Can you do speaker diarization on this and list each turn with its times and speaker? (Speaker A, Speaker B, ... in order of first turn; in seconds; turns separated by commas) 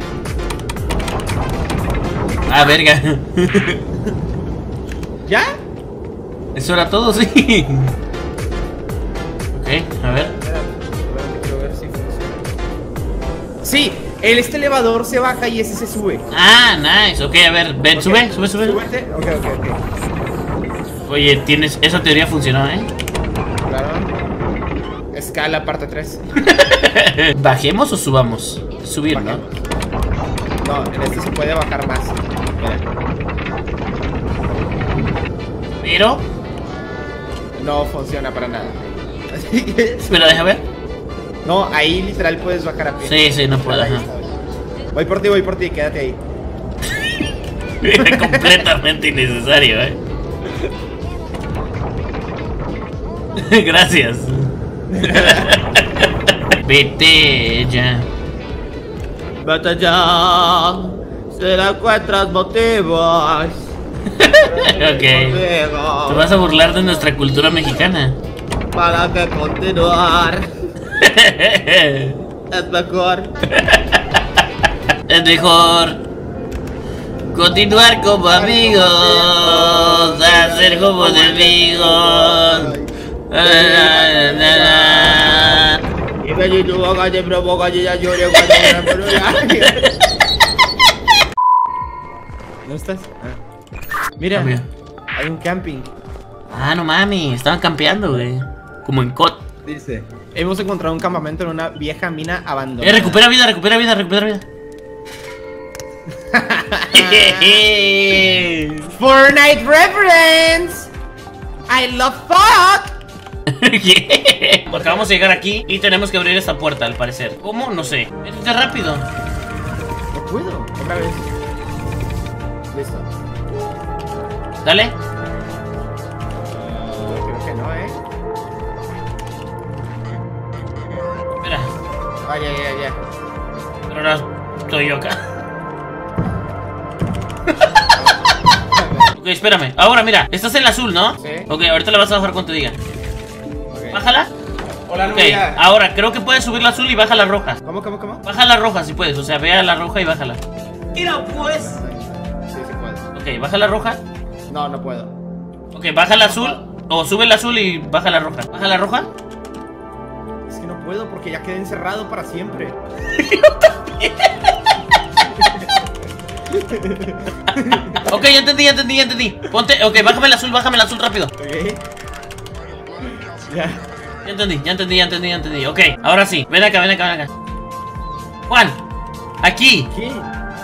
Speaker A: 2.5-3.8, Speaker B: 5.2-5.5, Speaker A: 6.5-7.9, Speaker A: 9.5-10.3, Speaker B: 10.3-12.4, Speaker B: 13.6-16.2, Speaker A: 16.3-18.8, Speaker B: 17.9-19.8, Speaker A: 21.1-22.9, Speaker B: 23.6-24.1, Speaker B: 25.1-26.2, Speaker A: 26.4-29.4, Speaker B: 29.1-29.6, Speaker B: 30.6-32.8, Speaker A: 35.8-36.2, Speaker B: 37.6-40.3, Speaker A: 40.1-40.6, Speaker B: 41.4-44.2, Speaker A: 43.0-44.1, Speaker B: 44.9-46.2, Speaker A: 47.8-50.0, Speaker B: 48.0-48.6, Speaker A: 53.4-58.1, Speaker B: 54.9-55.5, Speaker B: 59.4-63.7, Speaker A: 64.1-65.4, Speaker B: 64.3-66.3, Speaker A: 66.1-68.2, Speaker B: 68.7-70.5, Speaker A: 71.0-72.2, Speaker B: 72.5-73.3, Speaker A: 73.5-74.2, Speaker A: 75.1-76.0, Speaker A: 77.3-82.7, Speaker B: 78.3-85.6, Speaker A: 83.3-85.8, Speaker B: 86.2-89.8, Speaker A: 88.3-89.9, Speaker B: 92.6-93.4, Speaker B: 94.2-94.5, Speaker A: 94.3-94.7, Speaker B: 95.1-95.9, Speaker A: 96.5-99.4, Speaker B: 99.6-103.2, Speaker A: 102.8-104.4, Speaker B: 106.3-107.6, Speaker A: 106.9-108.9, Speaker B: 109.0-110.9, Speaker B: 111.7-113.0, Speaker A: 113.5-119.1, Speaker B: 114.7-115.0, Speaker B: 120.1-121.3, Speaker B: 122.7-123.1, Speaker A: 124.6-124.9, Speaker B: 126.5-128.0, Speaker A: 131.4-131.7, Speaker B: 132.2-133.0, Speaker A: 133.9-135.2, Speaker B: 138.7-139.1, Speaker A: 139.2-142.8, Speaker B: 141.2-141.5, Speaker B: 143.7-144.0, Speaker A: 143.9-144.3, Speaker B: 144.9-145.6, Speaker A: 145.1-147.6, Speaker B: 147.6-148.2, Speaker A: 148.2-150.4, Speaker B: 150.9-153.1, Speaker A: 151.3-151.7, Speaker A: 153.1-154.0, Speaker B: 154.5-155.1, Speaker A: 155.7-159.1, Speaker B: 156.2-156.6, Speaker B: 160.5-162.8, Speaker A: 163.1-164.5, Speaker B: 165.3-165.7, Speaker B: 166.5-168.1, Speaker A: 167.5-171.3, Speaker B: 171.4-171.8, Speaker B: 173.1-173.8, Speaker A: 174.2-177.3, Speaker A: 178.5-178.8, Speaker A: 179.4-179.9, Speaker B: 179.9-180.3